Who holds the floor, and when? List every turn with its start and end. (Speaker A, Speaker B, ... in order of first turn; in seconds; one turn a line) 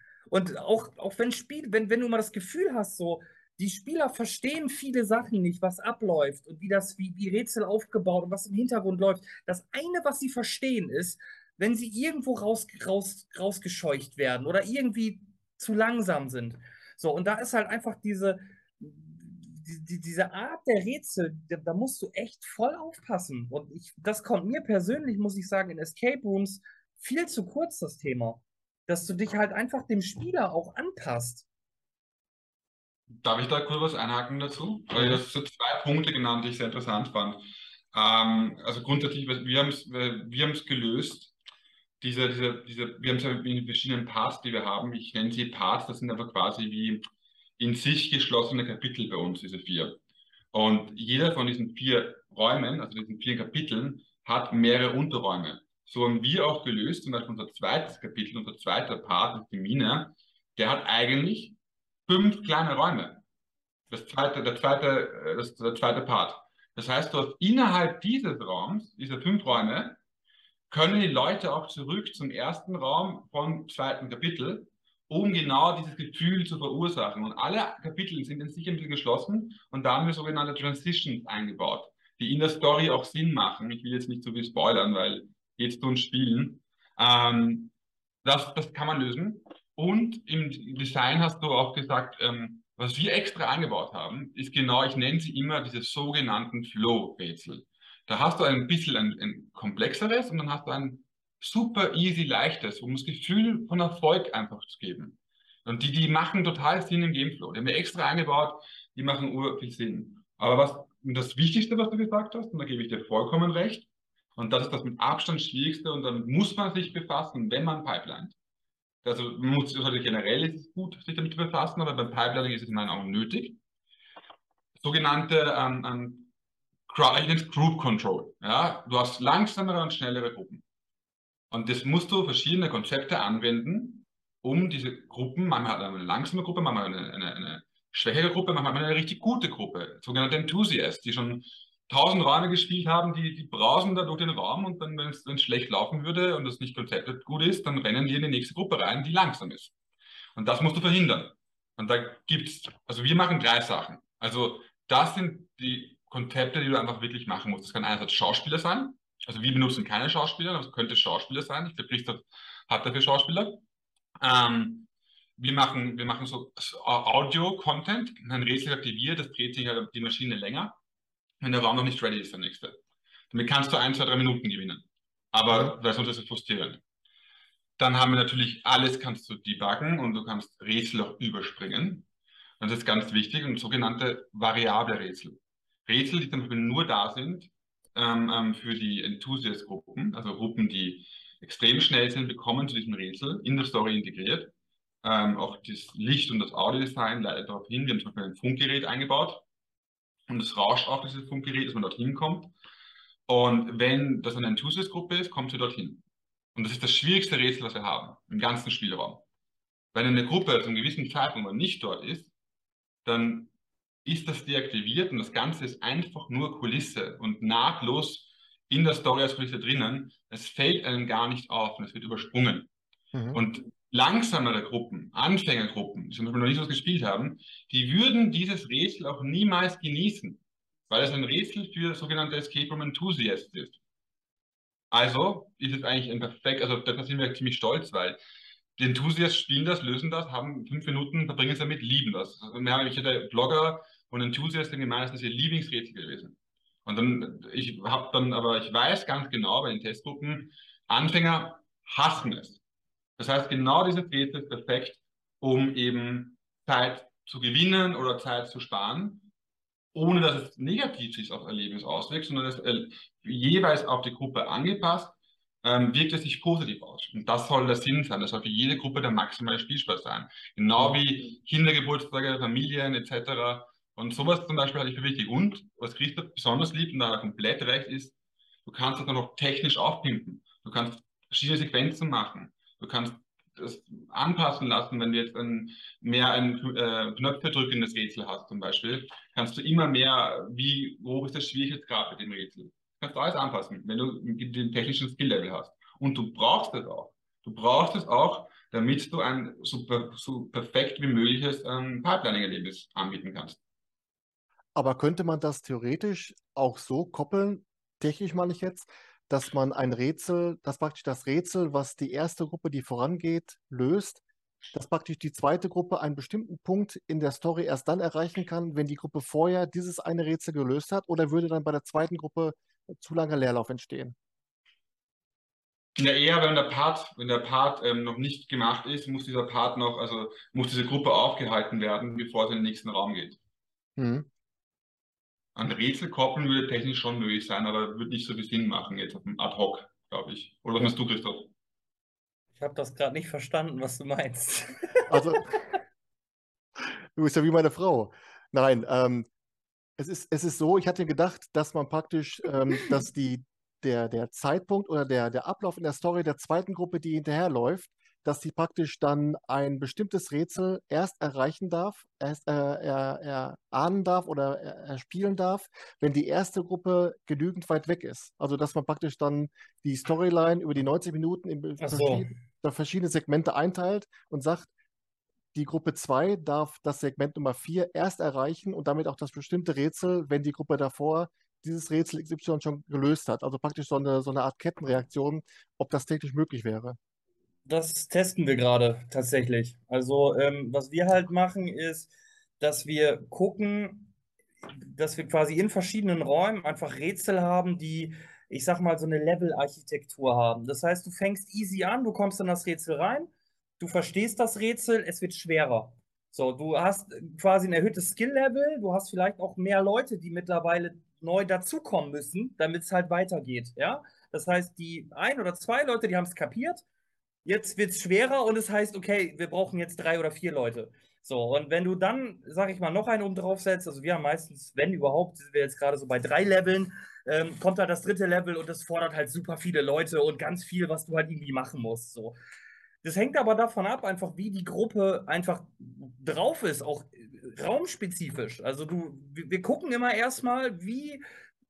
Speaker A: 0.3-31.5
Speaker B: 33.2-41.3
Speaker C: 34.9-35.2
Speaker B: 42.0-47.0
Speaker B: 47.6-50.0
Speaker B: 50.5-63.2
Speaker B: 63.9-70.0
Speaker B: 70.7-87.7
Speaker B: 88.2-118.3
Speaker B: 119.0-123.6
Speaker B: 124.8-126.3
Speaker B: 126.9-130.6
Speaker B: 131.5-149.7
Speaker B: 150.3-163.6
Speaker B: 164.2-170.8
Speaker B: 171.4-172.8
Speaker B: 173.3-176.8
Speaker C: 175.5-175.7
Speaker B: 177.8-182.1
Speaker B: 182.6-199.4
Speaker B: 200.3-202.5
Speaker B: 203.3-206.0
Speaker B: 206.5-209.2
Speaker B: 209.9-212.3
Speaker B: 213.0-213.5
Speaker B: 214.0-222.7
Speaker C: 223.1-223.4
Speaker B: 223.3-233.8
Speaker B: 234.9-238.2
Speaker B: 238.8-252.6
Speaker B: 253.2-259.3
Speaker B: 259.9-278.1
Speaker B: 278.6-303.6
Speaker C: 304.7-314.2
Speaker C: 314.7-324.1
Speaker B: 325.9-333.4
Speaker C: 334.0-334.3
Speaker B: 335.5-341.5
Speaker A: 342.6-345.4
Speaker C: 345.1-345.5
Speaker C: 347.1-349.2
Speaker C: 350.0-374.7
Speaker A: 371.8-372.3
Speaker C: 375.5-387.0
Speaker A: 387.6-394.1
Speaker A: 394.9-416.8
Speaker A: 417.4-432.4
Speaker A: 433.0-441.2